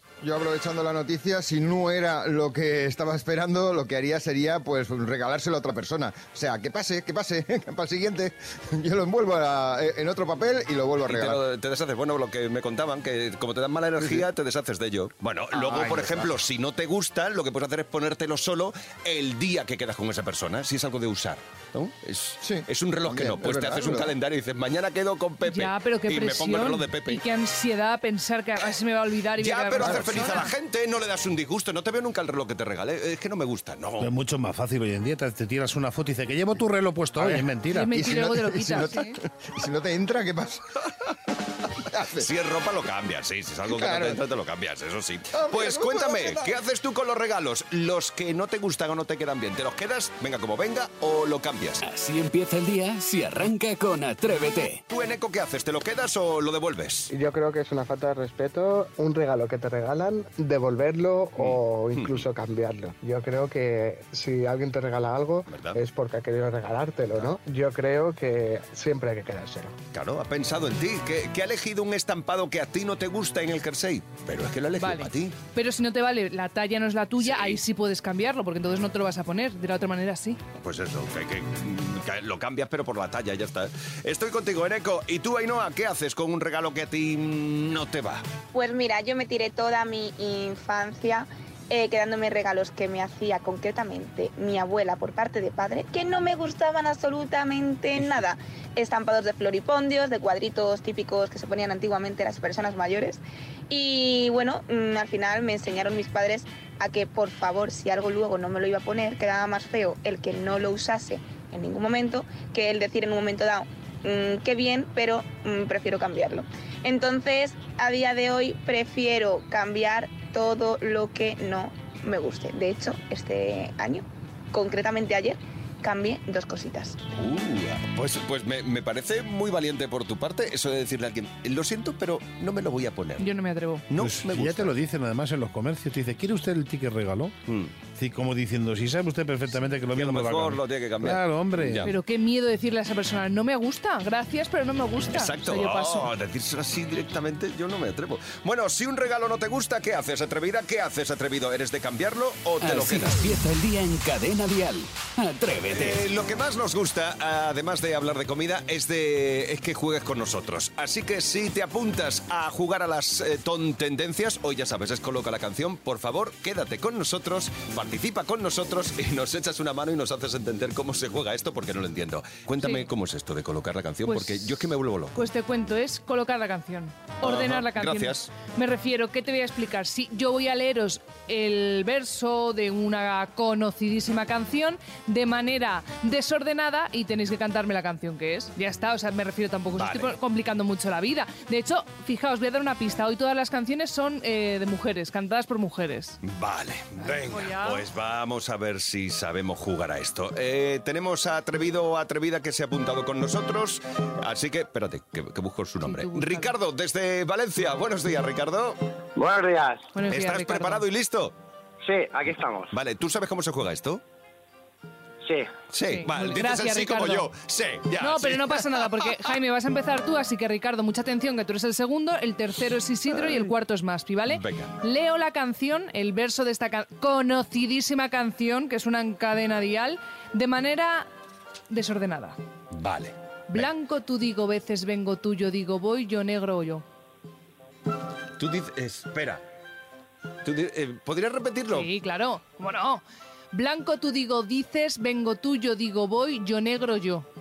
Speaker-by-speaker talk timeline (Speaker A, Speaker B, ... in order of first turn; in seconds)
Speaker A: 0.2-11.4, 14.0-14.2, 15.5-16.3, 22.4-24.1, 29.8-30.3, 37.2-40.6, 41.8-42.3, 43.7-44.2, 45.3-46.5
Speaker B: 11.1-27.2, 29.4-34.1, 42.1-51.8, 54.9-57.1, 61.4-62.3, 65.5-65.8, 69.9-75.3, 77.2-77.6, 80.5-88.2, 127.1-133.3, 133.9-134.7, 137.5-137.7, 139.5-141.9, 145.1-153.3, 155.7-175.2, 177.2-178.3, 189.8-190.2, 196.2-208.8, 210.1-211.3, 212.7-214.0, 215.7-219.0, 224.3-224.7, 232.7-233.7, 238.4-239.4, 240.4-241.9
Speaker C: 25.4-30.5, 37.7-39.2, 74.8-80.4, 133.2-133.8, 141.8-146.1, 172.6-172.9, 174.1-174.5, 175.1-196.2, 197.0-197.8, 205.8-206.5, 209.9-210.8, 215.8-217.3, 218.0-231.1, 231.7-232.4, 233.5-236.8, 241.7-247.2
Speaker D: 34.0-37.9, 134.0-137.3, 137.9-141.9
Speaker E: 51.8-54.8, 152.6-156.0
Speaker F: 57.1-69.7
Speaker G: 88.5-127.0
Speaker H: 209.2-209.9, 211.8-212.7, 215.2-215.5